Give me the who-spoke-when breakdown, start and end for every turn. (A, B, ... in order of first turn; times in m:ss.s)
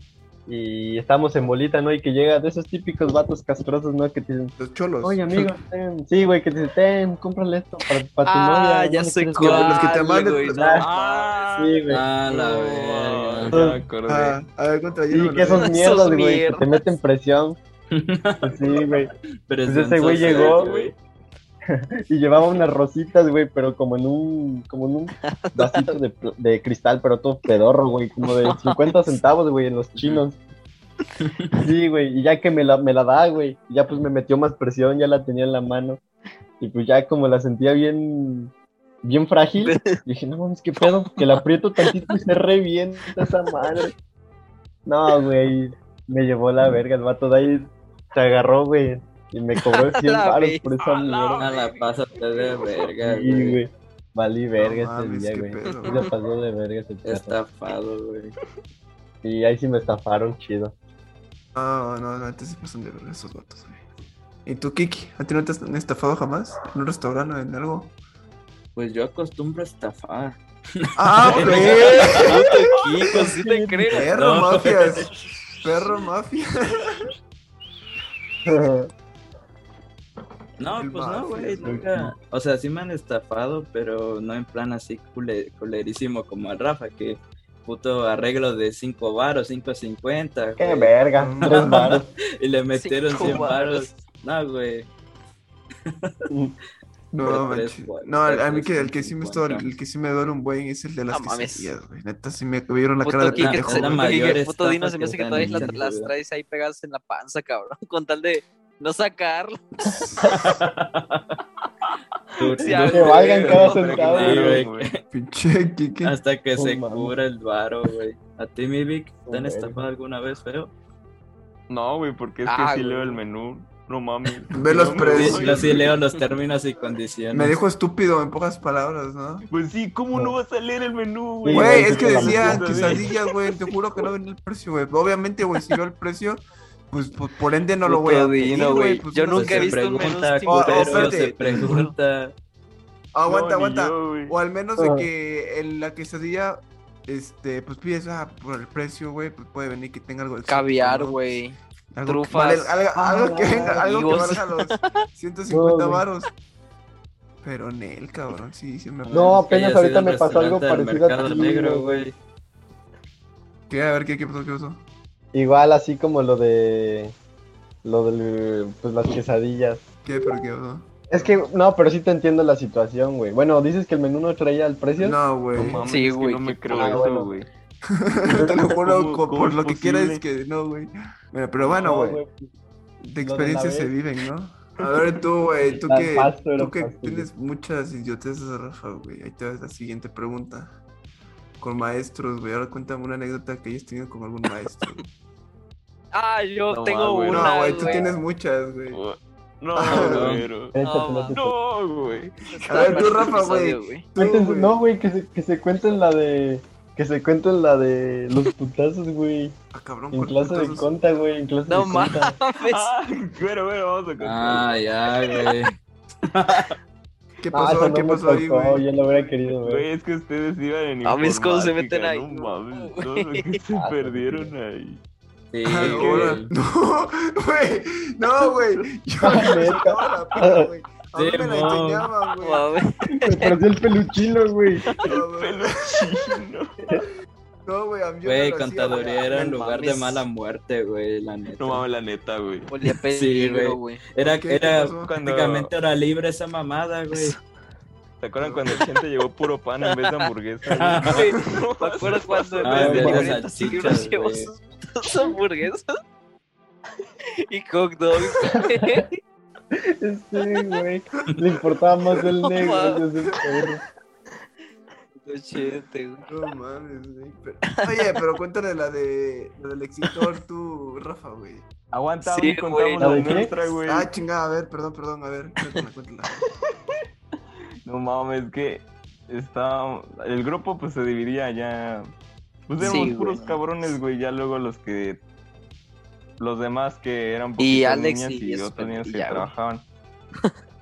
0:00.5-0:09.8 A
0:04.6-0:05.4 B
0:08.2-0:11.5 C
0:09.4-0:10.8 B
0:10.5-0:10.8 A
0:10.8-0:14.4 D
0:11.6-0:12.0 A
0:11.9-0:13.5 E
0:13.5-0:13.8 A
0:14.1-0:16.0 B
0:15.1-0:17.6 A
0:15.5-0:16.9 C
0:17.9-0:18.9 E
0:18.4-0:19.1 A
0:19.5-0:20.9 E
0:19.6-0:20.9 A
0:20.2-0:20.9 D
0:21.7-0:30.4 A
0:25.2-0:26.0 C
0:28.2-0:29.1 C
0:31.2-0:31.5 E
0:31.6-0:36.0 A
0:36.6-0:43.9 A
0:39.6-0:40.0 C
0:40.8-0:42.2 C
0:44.8-0:51.4 A
0:49.6-0:50.7 C
0:50.8-0:52.7 D
0:51.4-0:53.6 E
0:53.0-0:57.4 A
0:54.6-0:56.1 B
0:55.6-0:56.1 C
0:57.0-0:58.4 E
0:59.2-1:00.7 A
1:01.5-1:03.8 B
1:04.4-1:07.9 B
1:08.7-1:10.4 E
1:11.0-1:12.3 B
1:11.0-1:12.4 E
1:11.4-1:14.1 C
1:13.1-1:14.0 A
1:13.9-1:17.1 B
1:14.1-1:15.1 E
1:18.4-1:18.9 A
1:20.6-1:34.9 E
1:20.8-1:21.9 B
1:21.6-1:22.1 A
1:30.6-1:32.1 A
1:31.2-1:32.0 B
1:32.7-1:33.9 C
1:35.8-1:36.1 E
1:36.3-1:36.5 A
1:37.1-1:44.4 B
1:37.2-1:39.6 E
1:41.1-1:41.7 C
1:43.0-1:50.3 C
1:43.2-1:46.1 E
1:50.2-1:51.4 E
1:52.4-1:55.0 E
1:52.6-1:54.3 C
1:52.8-1:54.6 A
1:53.4-1:54.9 D
1:55.1-1:56.2 B
1:56.0-2:00.7 E
1:56.6-1:57.1 A
1:59.3-1:59.8 A
2:01.7-2:06.2 D
2:02.4-2:03.2 C
2:04.5-2:05.8 B
2:05.0-2:07.5 E
2:07.3-2:09.4 B
2:09.5-2:13.7 D
2:11.4-2:13.0 A
2:11.5-2:21.7 B
2:17.8-2:21.9 C
2:19.3-2:22.3 E
2:23.1-2:31.2 B
2:23.2-2:24.3 D
2:24.8-2:25.1 A
2:30.5-2:32.7 C
2:31.9-2:36.3 B
2:32.9-2:33.9 A
2:33.7-2:34.9 C
2:35.5-2:36.0 A
2:37.4-2:39.4 B
2:39.0-2:42.1 E
2:39.1-2:42.1 A
2:43.7-2:44.8 B
2:45.3-2:47.1 A
2:47.8-2:49.8 A
2:50.0-2:50.9 B
2:51.1-2:55.2 A
2:55.0-2:55.8 B
2:55.6-2:57.5 D
2:55.7-2:57.1 C
2:56.7-2:57.4 A
2:57.9-3:02.2 B
2:58.8-3:00.2 D
3:01.6-3:02.4 A
3:03.0-3:10.7 B
3:03.2-3:03.9 A
3:04.8-3:05.1 D
3:05.8-3:07.3 A
3:11.6-3:15.0 B
3:16.1-3:18.2 C
3:16.7-3:17.9 D
3:17.3-3:19.0 B
3:18.9-3:20.8 D
3:19.7-3:20.4 B
3:19.9-3:20.5 E
3:20.7-3:21.6 A
3:20.8-3:21.4 C
3:21.3-3:23.4 D
3:22.5-3:24.0 C
3:22.7-3:24.8 B
3:24.2-3:29.6 A
3:29.7-3:30.9 B
3:30.1-3:32.4 A
3:31.7-3:32.9 C
3:32.6-3:34.7 D
3:34.2-3:36.8 E
3:37.4-3:38.9 B
3:37.5-3:39.9 A
3:39.5-3:45.0 D
3:41.0-3:43.6 C
3:43.7-3:44.5 A
3:45.5-3:46.5 E
3:45.6-3:52.7 B
3:45.8-3:46.3 D
3:49.2-3:50.7 A
3:51.2-3:52.1 E
3:52.4-3:53.6 C
3:53.1-3:54.8 A
3:55.0-3:56.7 D
3:55.0-3:56.1 B
3:57.6-3:59.3 B
3:58.2-4:01.8 E
3:59.2-4:00.2 C
4:01.6-4:02.7 D
4:02.7-4:04.0 C
4:03.1-4:07.4 E
4:04.2-4:05.1 B
4:05.0-4:05.7 D
4:07.1-4:07.4 C
4:08.2-4:13.3 D
4:08.4-4:08.8 B
4:09.8-4:10.2 C
4:10.7-4:11.2 E
4:11.0-4:16.0 C
4:12.6-4:14.5 E
4:12.9-4:13.3 A
4:17.4-4:19.2 C
4:18.5-4:19.0 A
4:19.8-4:23.8 A
4:22.5-4:23.0 C
4:25.2-4:26.3 C
4:26.3-4:31.6 B
4:31.9-4:34.1 D
4:32.2-4:33.4 C
4:33.0-4:33.5 A
4:33.8-4:36.3 B
4:36.6-4:37.0 D
4:37.8-4:42.1 D
4:42.7-4:45.2 D
4:42.8-4:43.6 C
4:46.4-4:49.8 D
4:47.6-4:49.5 C